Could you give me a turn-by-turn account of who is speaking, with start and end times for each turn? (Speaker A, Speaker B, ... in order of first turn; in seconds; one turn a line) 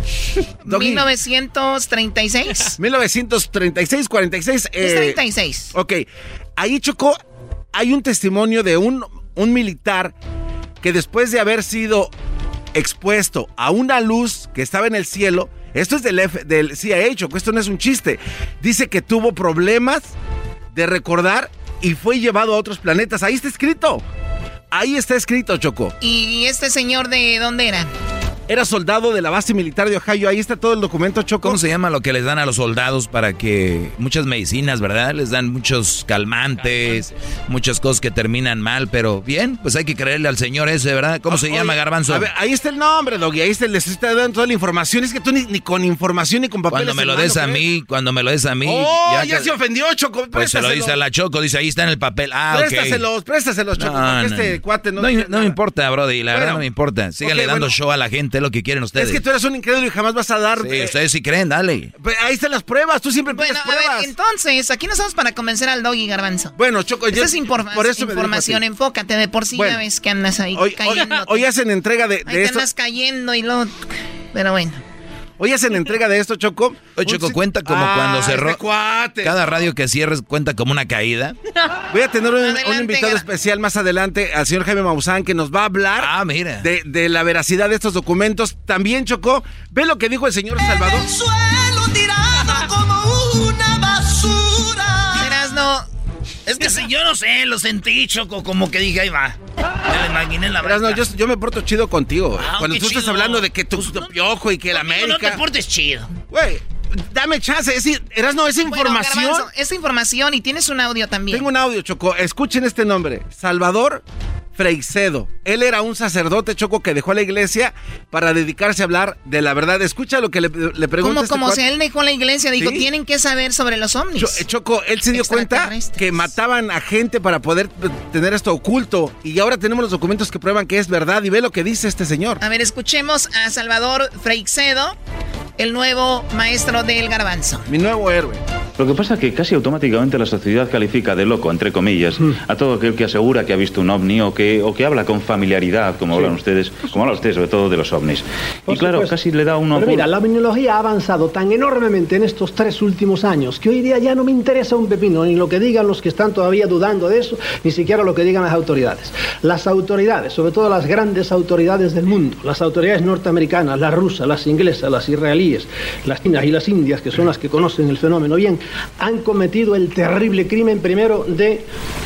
Speaker A: 0.6-2.8
Speaker B: 0.7-1.1
Speaker B: 2.8-5.2
Speaker A: 4.8-5.7
Speaker B: 5.7-6.0
Speaker B: 6.6-7.2
Speaker B: 7.7-10.1
Speaker B: 10.8-12.1
Speaker B: 12.7-20.1
Speaker B: 20.7-24.0
Speaker B: 24.7-25.9
Speaker A: 26.0-27.9
Speaker B: 28.5-31.6
Speaker C: 31.4-42.3
Speaker B: 41.3-47.6
Speaker C: 46.7-49.5
Speaker B: 48.6-51.0
Speaker C: 50.3-53.0
Speaker B: 52.5-55.6
Speaker C: 53.8-59.2
Speaker B: 56.3-56.6
Speaker B: 57.2-57.7
Speaker B: 58.9-60.9
Speaker C: 60.6-61.9
Speaker B: 62.0-64.1
Speaker A: 63.3-66.5
Speaker B: 66.6-68.6
Speaker A: 67.1-71.5
Speaker B: 69.5-69.8
Speaker B: 70.5-72.7
Speaker A: 72.2-73.7
Speaker A: 74.3-74.8
Speaker B: 75.4-79.4
Speaker C: 77.0-78.6
Speaker C: 79.2-81.4
Speaker B: 81.9-86.1
Speaker A: 82.4-83.2
Speaker C: 86.0-86.6
Speaker B: 86.6-91.1
Speaker A: 95.2-95.8
Speaker D: 96.5-99.4
Speaker D: 99.9-101.0
Speaker B: 100.6-105.4
Speaker D: 102.4-104.1
Speaker D: 104.7-106.1
Speaker B: 106.3-109.5
Speaker A: 108.6-111.5
Speaker B: 111.3-114.0
Speaker B: 114.5-121.6
Speaker A: 121.0-124.4
Speaker B: 122.6-122.8
Speaker B: 124.2-132.4
Speaker A: 125.1-126.3
Speaker A: 132.4-134.9
Speaker A: 135.6-137.7
Speaker B: 137.7-138.4
Speaker E: 138.8-150.1
Speaker F: 148.7-171.6